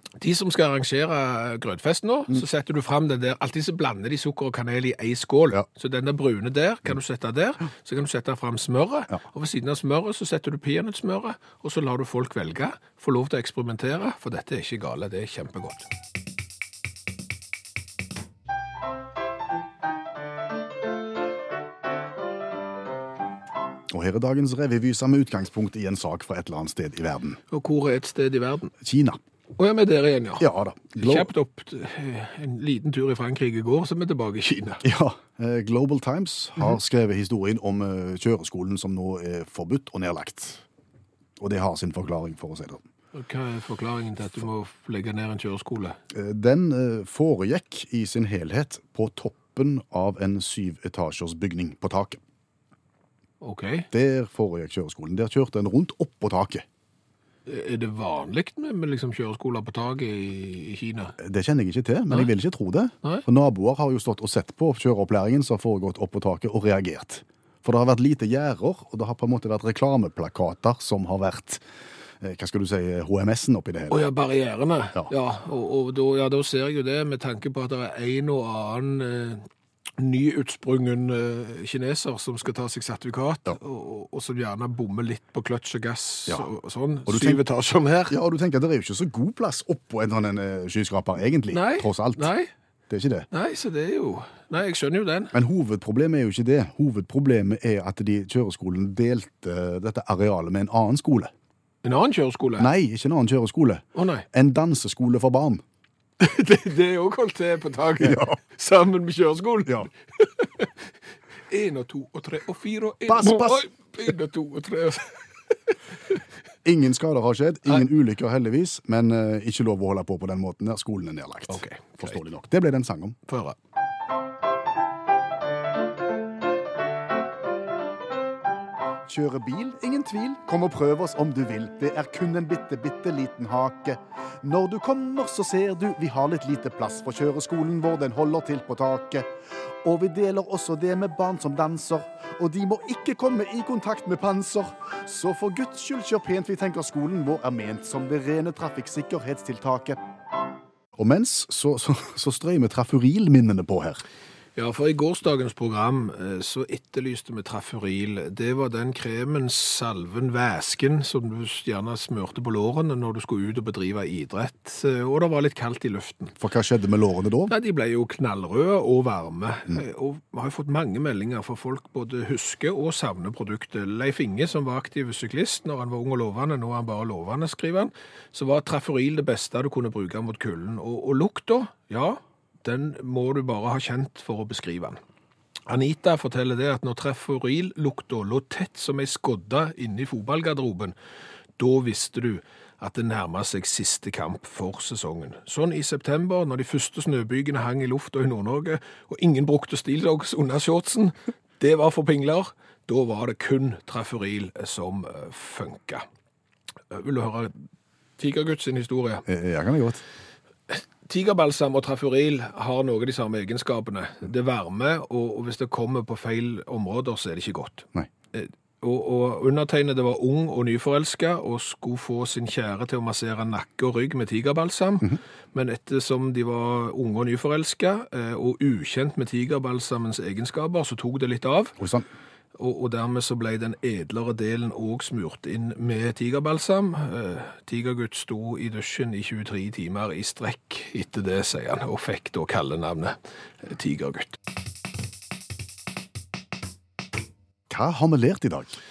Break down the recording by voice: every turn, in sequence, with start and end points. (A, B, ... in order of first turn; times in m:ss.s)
0:00.2-0:15.9 A
0:23.9-0:27.4 B
0:27.5-0:28.7 A
0:28.8-0:29.2 B
0:29.6-0:34.8 A
0:30.4-0:31.3 B
0:34.8-0:40.6 B
0:41.4-0:42.8 B
0:43.1-0:46.0 A
0:46.1-0:52.2 B
0:53.4-0:53.9 A
0:53.9-0:56.6 B
0:57.5-1:01.2 A
1:01.2-1:11.6 B
1:12.2-1:14.1 B
1:13.9-1:19.5 A
1:20.0-1:28.2 A
1:27.1-1:27.4 B
1:28.1-1:32.3 B
1:31.5-1:32.5 A
1:32.9-1:33.3 B
1:33.3-1:35.3 A
1:35.3-1:41.3 B
1:41.8-1:42.7 A
1:42.6-1:45.6 B
1:44.0-1:44.3 A
1:46.2-1:50.7 A
1:48.0-1:48.4 B
1:51.5-1:55.7 A
1:53.1-1:53.6 B
1:56.6-2:03.2 B
2:01.5-2:02.2 A
2:03.3-2:03.6 A
2:09.1-2:19.3 B
2:19.8-2:30.0 B
2:31.0-2:34.0 B
2:34.6-2:46.3 A
2:46.4-2:47.5 B
2:47.5-3:05.0 A
3:05.7-3:11.0 A
3:11.6-3:26.0 A
3:26.9-3:27.6 A
3:28.2-3:29.2 A
3:29.3-3:30.0 B
3:30.7-3:51.8 A
3:51.8-3:52.1 B
3:52.6-4:04.4 A
4:07.7-4:08.8 B